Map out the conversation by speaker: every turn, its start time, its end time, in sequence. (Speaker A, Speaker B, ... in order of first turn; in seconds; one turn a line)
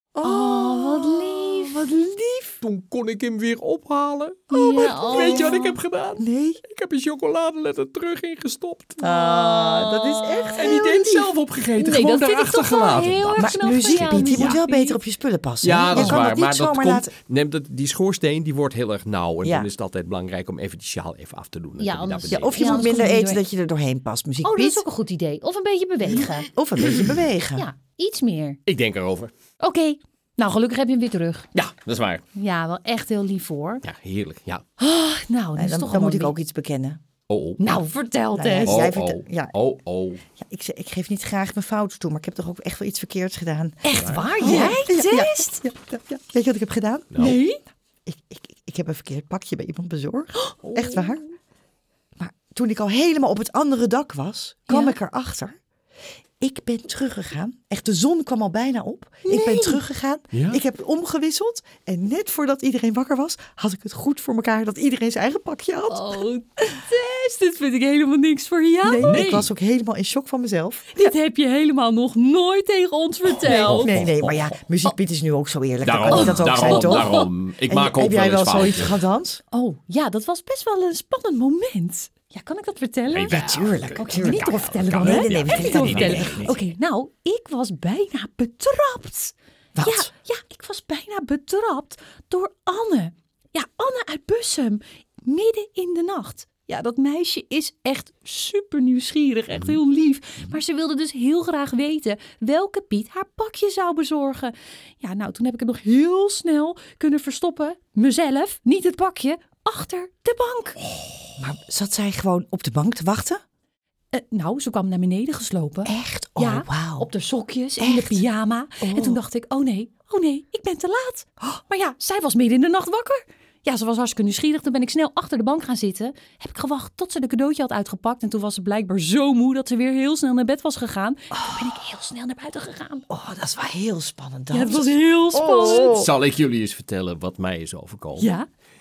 Speaker A: 0.1-2.6
Speaker B: 0.2-1.8
Speaker C: 2.6-9.0
Speaker B: 4.5-5.8
Speaker A: 4.6-5.6
Speaker A: 6.2-6.6
Speaker B: 9.0-10.9
Speaker A: 9.0-11.3
Speaker C: 10.6-14.6
Speaker B: 11.8-15.0
Speaker A: 13.4-17.1
Speaker C: 15.6-23.0
Speaker B: 15.9-16.2
Speaker A: 19.4-19.7
Speaker B: 21.8-23.4
Speaker A: 22.3-24.8
Speaker B: 24.4-26.5
Speaker A: 26.1-27.7
Speaker B: 27.6-28.6
Speaker C: 28.7-29.3
Speaker B: 29.6-31.5
Speaker C: 31.5-32.2
Speaker B: 32.3-33.8
Speaker C: 33.8-34.6
Speaker B: 34.8-36.3
Speaker A: 35.5-37.0
Speaker C: 37.3-37.8
Speaker B: 37.6-38.8
Speaker A: 38.3-39.5
Speaker C: 38.6-40.2
Speaker A: 40.4-47.4
Speaker B: 43.8-45.6
Speaker C: 44.0-44.7
Speaker C: 47.1-47.4
Speaker B: 47.2-47.6
Speaker A: 48.0-51.2
Speaker B: 50.4-51.2
Speaker A: 52.2-55.5
Speaker B: 54.7-55.0
Speaker A: 56.4-66.2
Speaker B: 59.2-59.8
Speaker C: 60.3-60.6
Speaker B: 65.9-69.5
Speaker A: 68.8-71.1
Speaker C: 69.0-69.4
Speaker B: 70.9-73.9
Speaker A: 73.4-79.4
Speaker C: 73.4-74.5
Speaker C: 75.8-79.0
Speaker B: 76.1-77.3
Speaker B: 79.5-110.8
Speaker C: 83.1-86.7
Speaker A: 83.3-86.5
Speaker A: 89.7-90.1
Speaker A: 111.4-113.4
Speaker B: 114.1-133.1
Speaker A: 115.8-117.1
Speaker A: 117.8-118.2
Speaker A: 118.8-119.2
Speaker A: 131.3-131.7
Speaker A: 133.1-136.1
Speaker B: 134.5-135.9
Speaker C: 135.6-138.3
Speaker B: 138.2-138.4